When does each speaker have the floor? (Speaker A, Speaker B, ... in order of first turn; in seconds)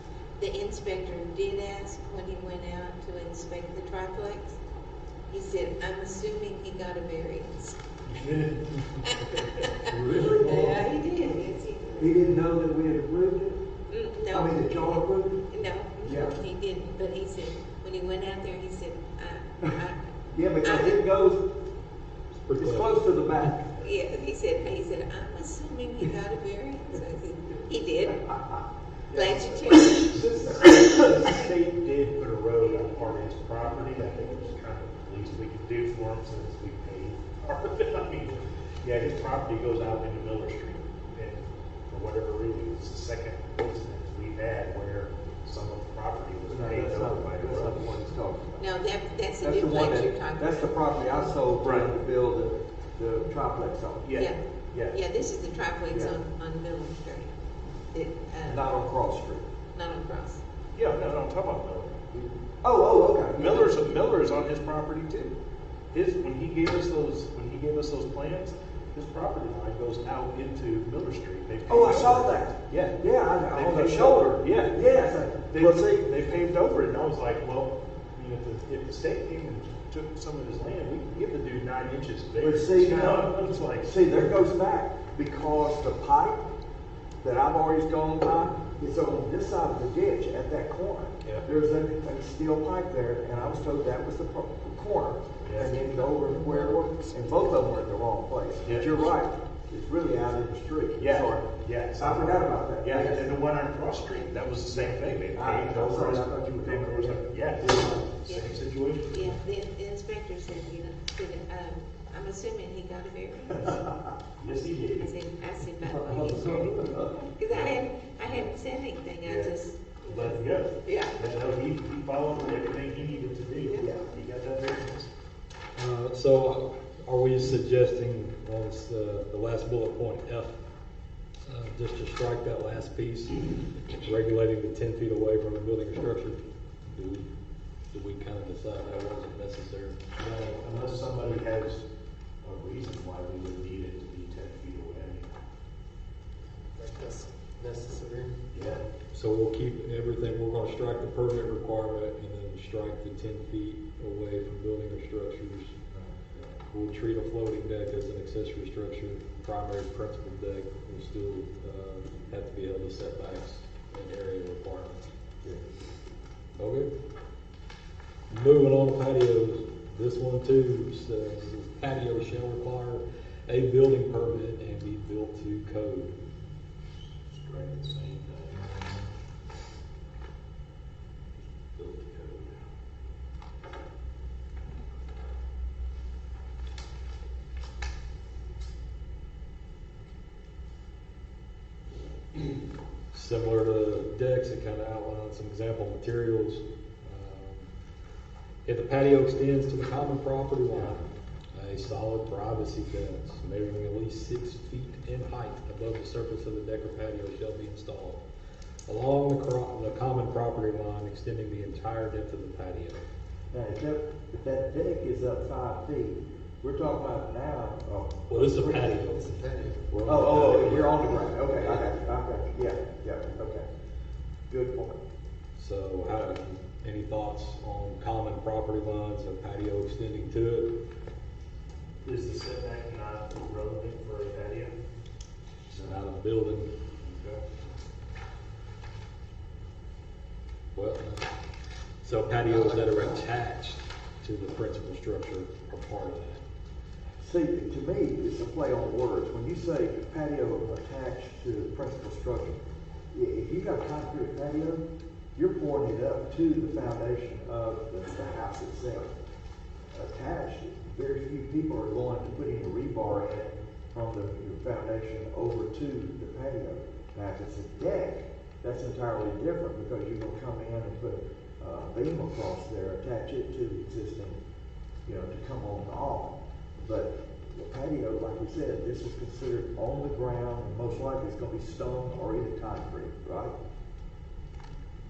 Speaker A: 0.4-4.6, 5.3-7.8, 9.0-12.2, 13.9-20.0, 20.6-21.0, 23.8-28.4, 29.1-30.1, 48.6-51.4, 54.1-57.3, 57.9-58.8, 59.7-60.4, 108.2-113.8, 115.0-121.2
Speaker B: 8.0-9.6, 29.1-47.8, 51.6-51.9, 54.0-55.0, 60.7-62.3, 63.4-65.3, 65.9-74.8, 75.5-84.0, 95.4-95.8, 98.6-99.1, 101.0-109.4, 114.4-115.1, 117.5-118.5, 119.2-125.1, 140.6-141.8, 142.4-145.3, 148.5-148.9, 177.3-179.0, 181.7-182.6, 232.0-234.7, 237.0-237.4
Speaker C: 9.8-10.8, 12.0-13.7, 14.3-15.4, 16.0-16.4, 20.3-21.6, 22.6-23.7, 46.5-48.6, 49.4-54.1, 55.9-56.2, 58.4-59.5, 62.6-63.9, 71.7-76.1, 82.4-86.4, 87.2-103.3, 104.7-108.0, 113.6-114.1, 115.8-117.3, 123.8-124.0, 213.5-219.0, 220.0-223.6, 224.5-225.0, 247.2-252.6, 253.1-254.8, 255.3-259.1, 259.9-274.4, 275.1-283.5
Speaker D: 22.3-23.5, 125.8-130.6, 131.4-137.3, 137.9-140.6, 149.1-155.8, 156.7-165.1, 166.6-166.9, 168.3-176.1, 193.1-197.7, 198.6-208.2, 208.9-213.0, 218.3-219.3, 219.9-221.8, 225.6-230.8, 235.7-236.7, 240.7-241.3, 242.0-246.4
Speaker E: 95.8-97.5, 146.7-148.4, 219.1-219.9